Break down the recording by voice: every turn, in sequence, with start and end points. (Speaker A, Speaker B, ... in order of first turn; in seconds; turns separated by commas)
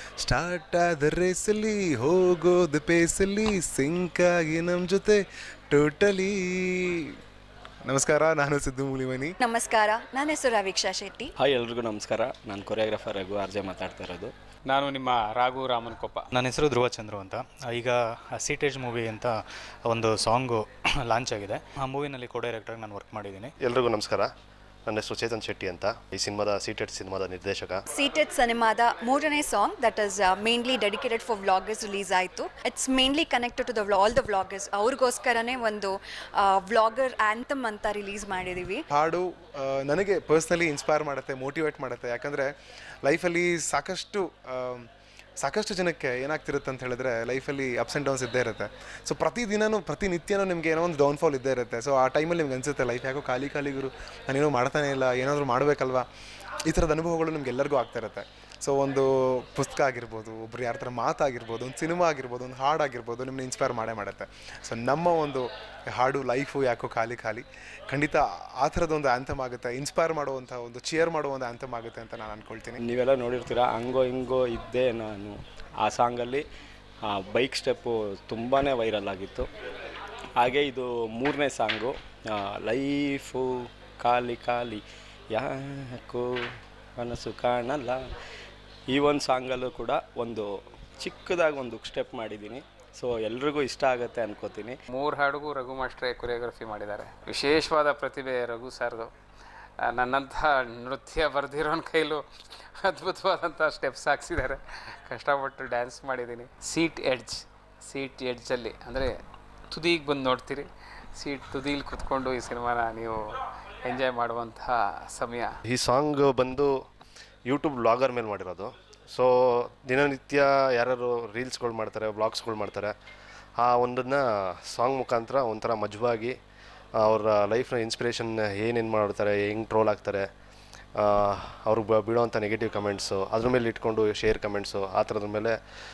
Speaker A: 0.2-7.1, Speaker A: 7.9-9.3, Speaker B: 9.4-11.3, Speaker C: 11.4-14.3, Speaker D: 14.7-16.3, Speaker E: 16.3-19.3, Speaker E: 19.9-23.5, Speaker F: 23.6-24.3, Speaker F: 24.9-27.8, Speaker B: 27.9-38.8, Speaker A: 38.9-42.5, Speaker A: 43.0-44.9, Speaker A: 45.4-56.1, Speaker A: 56.7-72.8, Speaker C: 72.8-76.4, Speaker C: 77.0-79.5, Speaker C: 80.4-88.0, Speaker C: 88.9-94.8, Speaker D: 94.9-99.1, Speaker D: 99.9-102.2, Speaker D: 102.8-109.1, Speaker D: 109.7-113.2, Speaker D: 113.8-115.5, Speaker F: 115.7-116.7, Speaker F: 117.5-119.3, Speaker F: 119.8-122.9, Speaker F: 123.6-126.3, Speaker F: 127.0-130.3, Speaker F: 130.9-135.6